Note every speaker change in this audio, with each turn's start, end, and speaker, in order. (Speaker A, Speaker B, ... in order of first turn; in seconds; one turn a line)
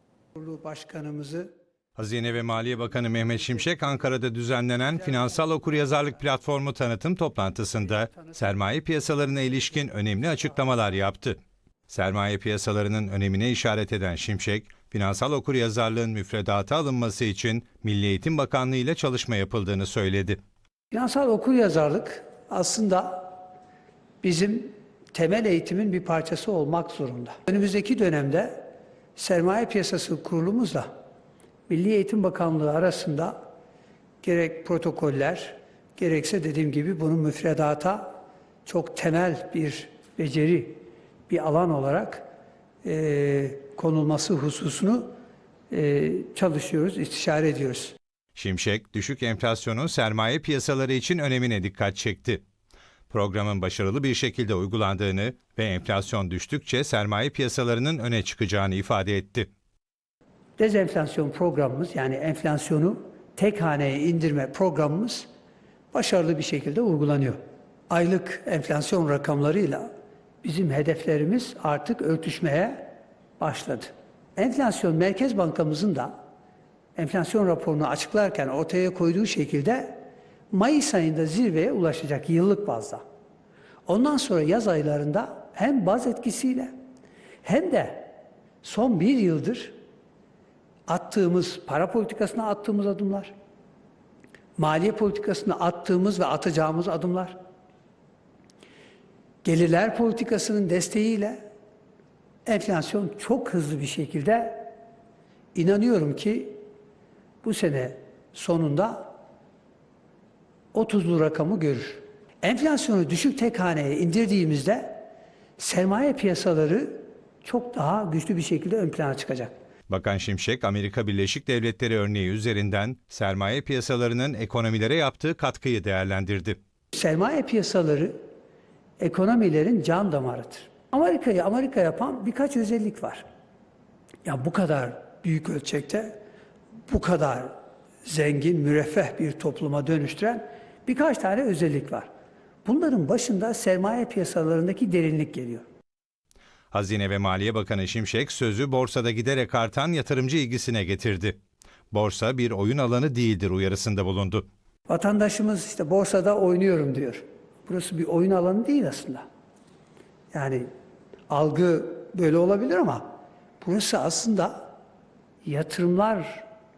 Speaker A: 0.3-1.5
Speaker B: 2.0-20.4
Speaker A: 3.5-4.0
Speaker A: 4.8-6.2
Speaker A: 7.8-10.8
Speaker A: 20.9-23.4
Speaker A: 24.2-30.9
Speaker A: 31.7-33.4
Speaker A: 34.2-38.1
Speaker A: 38.7-42.3
Speaker A: 42.8-45.1
Speaker A: 45.7-48.0
Speaker B: 48.4-52.4
Speaker B: 53.1-59.5
Speaker A: 60.6-65.3
Speaker A: 65.9-67.4
Speaker A: 67.9-69.9
Speaker A: 70.4-76.1
Speaker A: 77.0-83.0
Speaker A: 83.8-86.7
Speaker A: 87.4-89.7
Speaker A: 90.9-93.3
Speaker A: 94.6-97.4
Speaker A: 99.4-101.4
Speaker A: 102.5-104.7
Speaker A: 105.5-106.6
Speaker A: 107.4-109.1
Speaker A: 110.7-115.0
Speaker A: 115.6-119.5
Speaker B: 119.9-126.6
Speaker A: 126.9-128.1
Speaker A: 129.0-133.2
Speaker A: 134.2-136.2
Speaker A: 136.9-137.5
Speaker A: 138.1-142.1
Speaker A: 142.6-145.6
Speaker B: 146.7-151.4
Speaker B: 151.9-154.5
Speaker A: 154.9-159.2
Speaker A: 160.3-160.7
Speaker A: 161.3-164.7
Speaker A: 165.4-166.4